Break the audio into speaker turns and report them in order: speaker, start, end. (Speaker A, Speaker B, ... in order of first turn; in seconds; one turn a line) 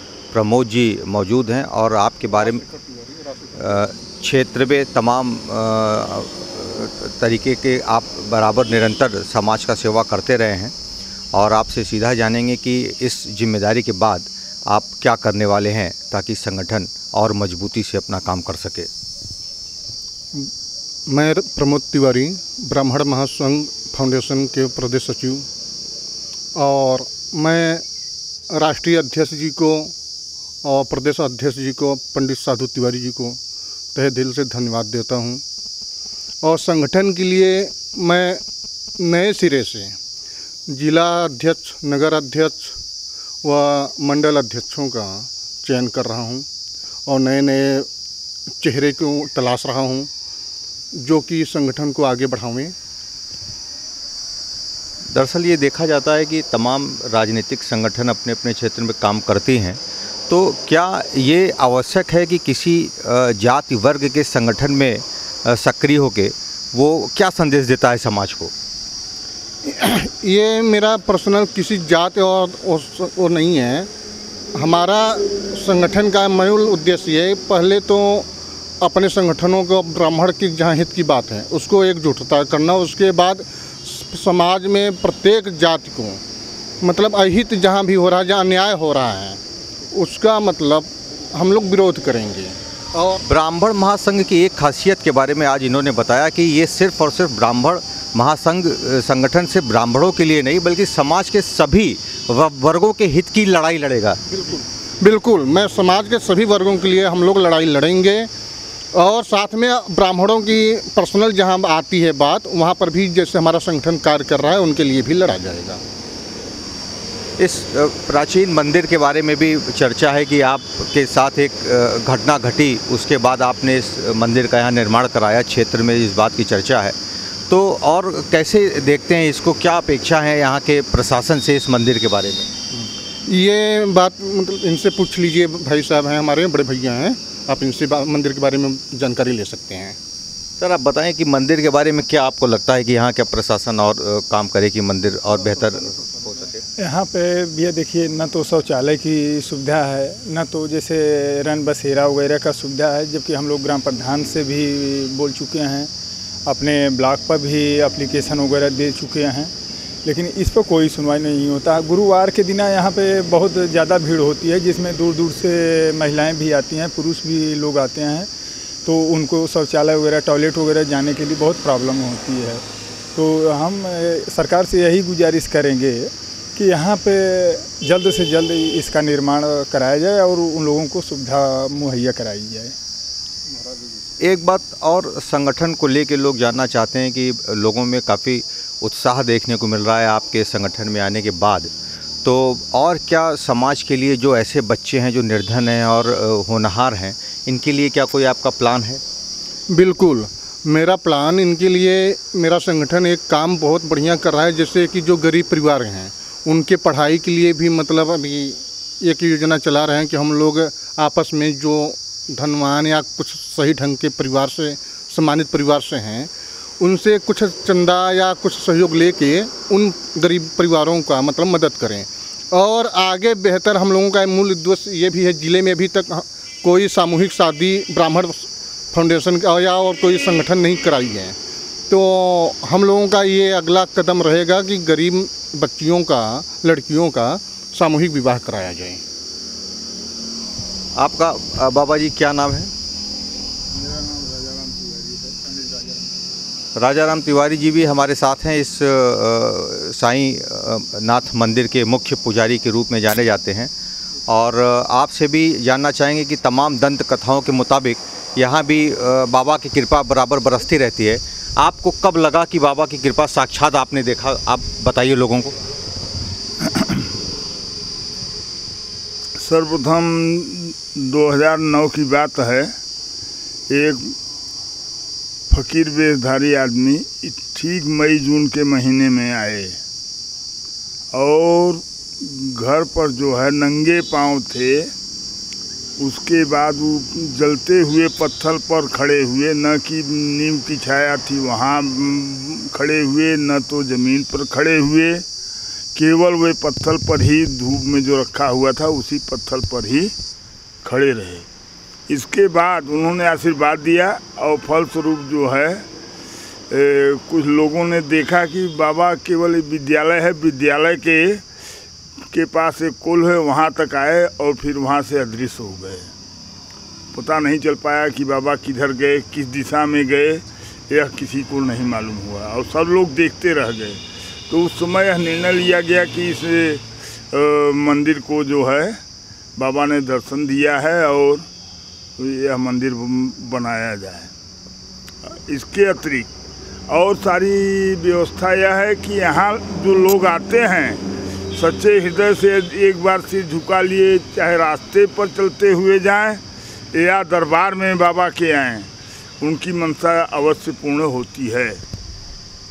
Speaker A: 0.3-2.6
Speaker B: 2.5-3.5
Speaker A: 3.5-10.7
Speaker A: 11.3-18.9
Speaker B: 21.1-25.4
Speaker B: 26.6-27.8
Speaker B: 28.5-29.9
Speaker B: 30.6-33.4
Speaker B: 34.0-35.4
Speaker B: 36.4-38.4
Speaker B: 39.0-40.0
Speaker B: 40.7-42.8
Speaker B: 43.4-46.5
Speaker B: 47.1-47.9
Speaker B: 48.6-50.1
Speaker B: 51.0-52.7
Speaker A: 55.1-68.5
Speaker B: 69.7-73.9
Speaker B: 74.5-78.3
Speaker B: 78.8-86.2
Speaker B: 86.8-93.2
Speaker A: 93.2-104.2
Speaker B: 104.5-108.3
Speaker B: 108.9-115.8
Speaker A: 117.4-127.0
Speaker A: 127.5-132.5
Speaker B: 132.7-140.0
Speaker A: 140.6-146.6
Speaker C: 146.8-155.9
Speaker C: 156.4-159.5
Speaker C: 160.0-168.3
Speaker C: 168.8-172.6
Speaker C: 173.1-182.8
Speaker A: 184.2-191.7
Speaker A: 192.2-199.0
Speaker B: 199.7-231.4
Speaker B: 231.9-239.0
Speaker A: 240.9-242.7
Speaker D: 243.7-246.1
Speaker A: 246.8-253.7
Speaker A: 254.3-265.6
Speaker D: 269.4-272.7
Speaker D: 273.7-274.1
Speaker D: 275.5-279.8
Speaker D: 281.1-284.9
Speaker D: 286.0-295.2
Speaker D: 295.9-300.1
Speaker D: 300.8-301.4
Speaker D: 302.1-305.8
Speaker D: 306.7-311.4
Speaker D: 312.3-316.1
Speaker D: 317.1-329.0
Speaker D: 329.6-331.4
Speaker D: 332.2-334.3
Speaker D: 335.2-336.3
Speaker D: 336.9-341.0
Speaker D: 341.5-346.4
Speaker D: 346.9-348.9
Speaker D: 349.4-351.8